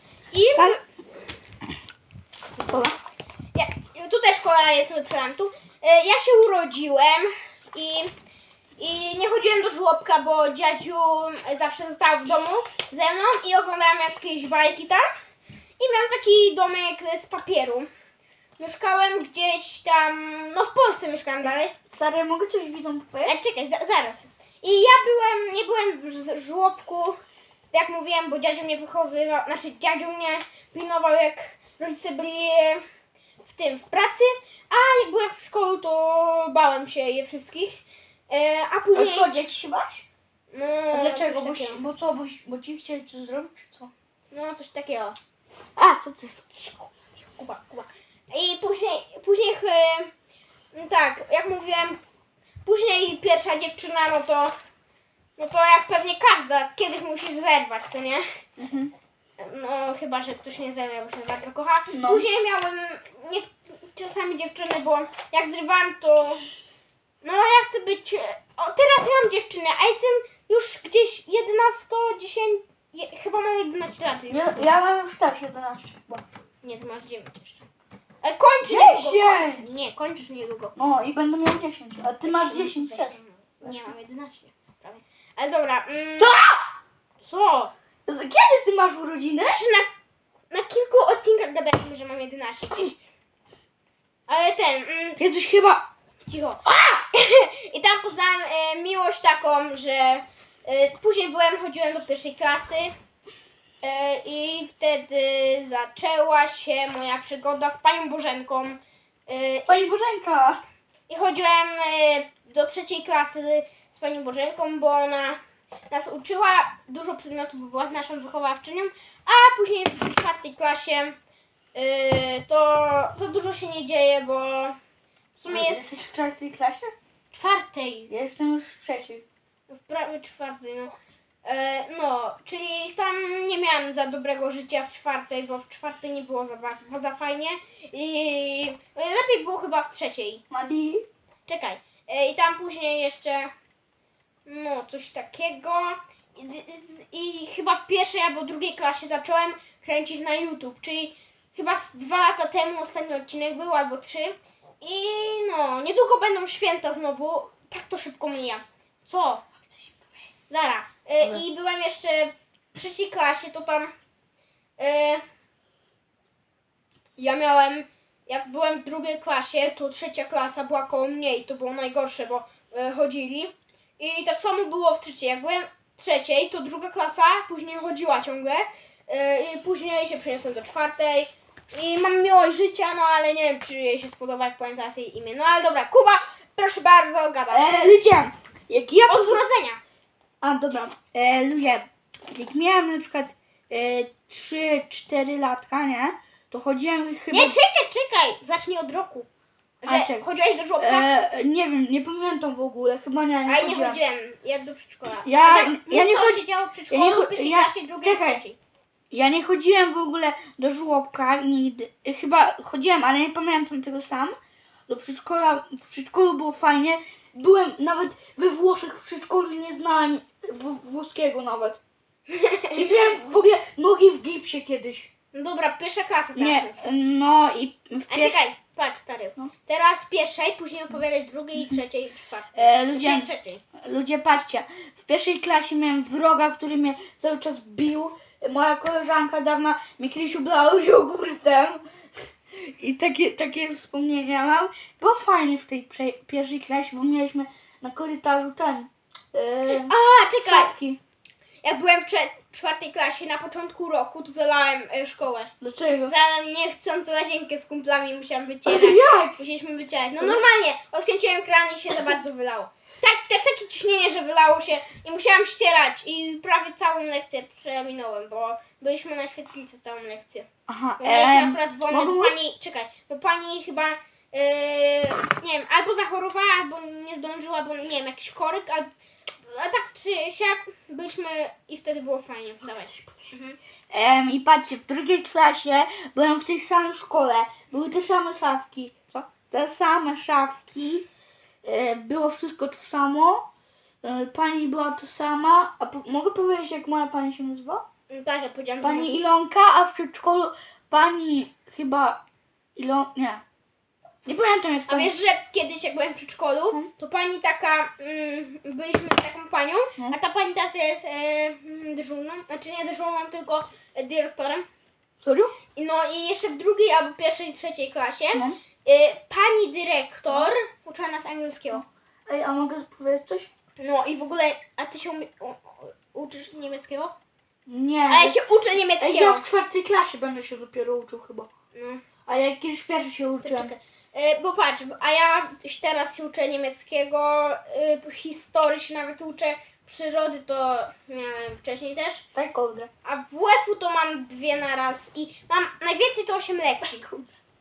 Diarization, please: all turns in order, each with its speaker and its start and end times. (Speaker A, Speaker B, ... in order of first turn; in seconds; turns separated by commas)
Speaker A: 0.3-0.8, Speaker B: 2.6-3.0, Speaker A: 3.5-8.1, Speaker A: 8.8-15.1, Speaker A: 15.8-17.9, Speaker A: 18.6-21.7, Speaker B: 21.4-23.4, Speaker A: 23.2-27.2, Speaker A: 27.7-32.8, Speaker A: 33.4-39.3, Speaker B: 38.9-40.0, Speaker A: 40.5-41.8, Speaker B: 40.9-43.9, Speaker A: 44.3-45.2, Speaker B: 45.8-46.9, Speaker A: 47.3-50.1, Speaker A: 50.7-52.0, Speaker A: 52.6-54.5, Speaker A: 55.4-58.2, Speaker B: 58.6-58.9, Speaker A: 59.4-66.4, Speaker B: 61.9-62.2, Speaker A: 67.2-74.7, Speaker B: 74.3-76.2, Speaker A: 76.6-77.6, Speaker A: 78.2-80.7, Speaker B: 78.7-79.6, Speaker B: 80.8-83.8, Speaker A: 82.2-86.4, Speaker B: 86.2-86.7, Speaker A: 87.2-87.7, Speaker B: 88.0-89.6, Speaker A: 89.5-89.9, Speaker A: 90.5-93.0, Speaker A: 94.3-95.2, Speaker B: 95.2-95.9, Speaker A: 96.2-102.9, Speaker B: 96.6-97.0, Speaker A: 103.8-109.9, Speaker B: 109.7-110.6, Speaker A: 111.1-115.4, Speaker A: 115.9-121.2, Speaker A: 121.7-124.8, Speaker A: 125.3-126.1, Speaker B: 125.5-126.9, Speaker A: 127.3-128.1, Speaker B: 128.1-129.2, Speaker A: 129.7-130.9, Speaker A: 131.4-140.4, Speaker B: 140.5-141.1, Speaker A: 141.4-143.5, Speaker A: 144.4-159.4, Speaker B: 159.6-160.1, Speaker A: 160.5-163.9, Speaker A: 164.8-165.2, Speaker A: 167.2-187.7, Speaker B: 187.5-189.4, Speaker A: 189.1-189.8, Speaker B: 190.4-197.6, Speaker A: 197.3-199.3, Speaker A: 199.8-201.1, Speaker B: 199.8-204.0, Speaker A: 203.4-208.6, Speaker B: 205.2-208.4, Speaker B: 209.1-214.3, Speaker B: 214.9-221.8, Speaker A: 222.3-222.8, Speaker B: 222.7-225.1, Speaker A: 225.3-226.8, Speaker B: 226.3-228.4, Speaker A: 228.1-233.6, Speaker B: 232.5-241.8, Speaker B: 242.5-251.0, Speaker A: 249.7-250.7, Speaker A: 251.6-255.5, Speaker B: 255.6-256.1, Speaker A: 256.1-270.5, Speaker B: 258.6-259.4, Speaker B: 260.2-260.5, Speaker B: 270.7-272.3, Speaker A: 271.0-278.9, Speaker A: 279.4-283.6, Speaker B: 282.6-283.3, Speaker B: 283.9-291.1, Speaker B: 291.6-293.5, Speaker B: 294.0-297.8, Speaker A: 298.1-299.1, Speaker B: 298.8-302.2, Speaker B: 302.8-303.4, Speaker B: 304.2-305.1, Speaker A: 304.9-314.7, Speaker B: 315.2-315.5, Speaker A: 315.7-321.8, Speaker B: 321.7-323.5, Speaker A: 323.8-327.1, Speaker B: 327.7-328.4, Speaker A: 328.1-329.4, Speaker B: 329.0-331.5, Speaker A: 331.7-332.0, Speaker B: 332.3-333.7, Speaker A: 333.4-342.2, Speaker B: 342.3-342.9, Speaker A: 343.0-347.0, Speaker B: 346.8-347.3